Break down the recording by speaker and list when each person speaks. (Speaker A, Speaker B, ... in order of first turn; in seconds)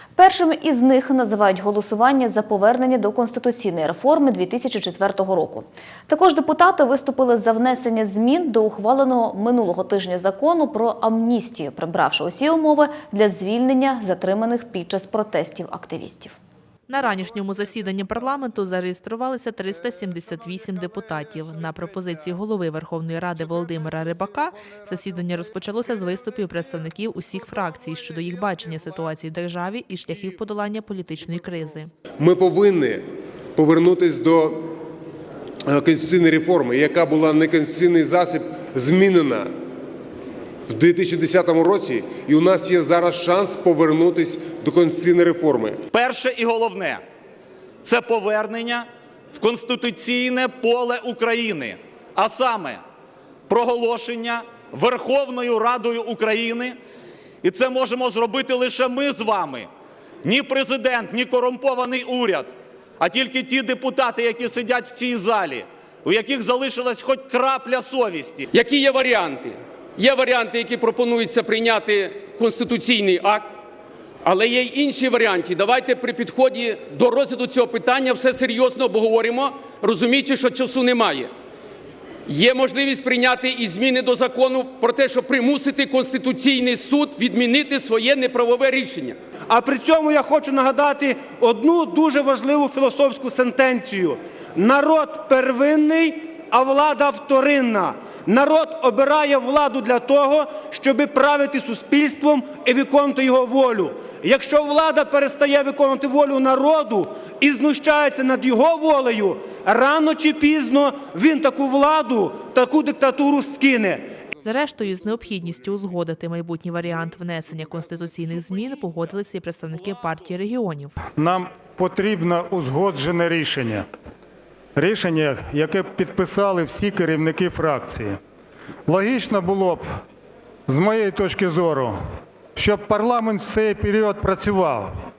Speaker A: 0.2-16.4
Speaker B: 16.9-31.9, 114.4-121.0
Speaker C: 32.2-33.0, 33.6-34.7, 35.7-39.5, 40.7-45.8
Speaker D: 45.9-47.0, 47.8-52.8, 53.5-56.8, 57.4-59.7, 60.2-68.5
Speaker E: 68.5-73.5, 74.2-81.3, 82.3-89.2
Speaker F: 89.5-114.0
Speaker G: 121.2-123.9, 124.8-128.2, 128.9-129.9, 130.7-132.0, 132.6-134.9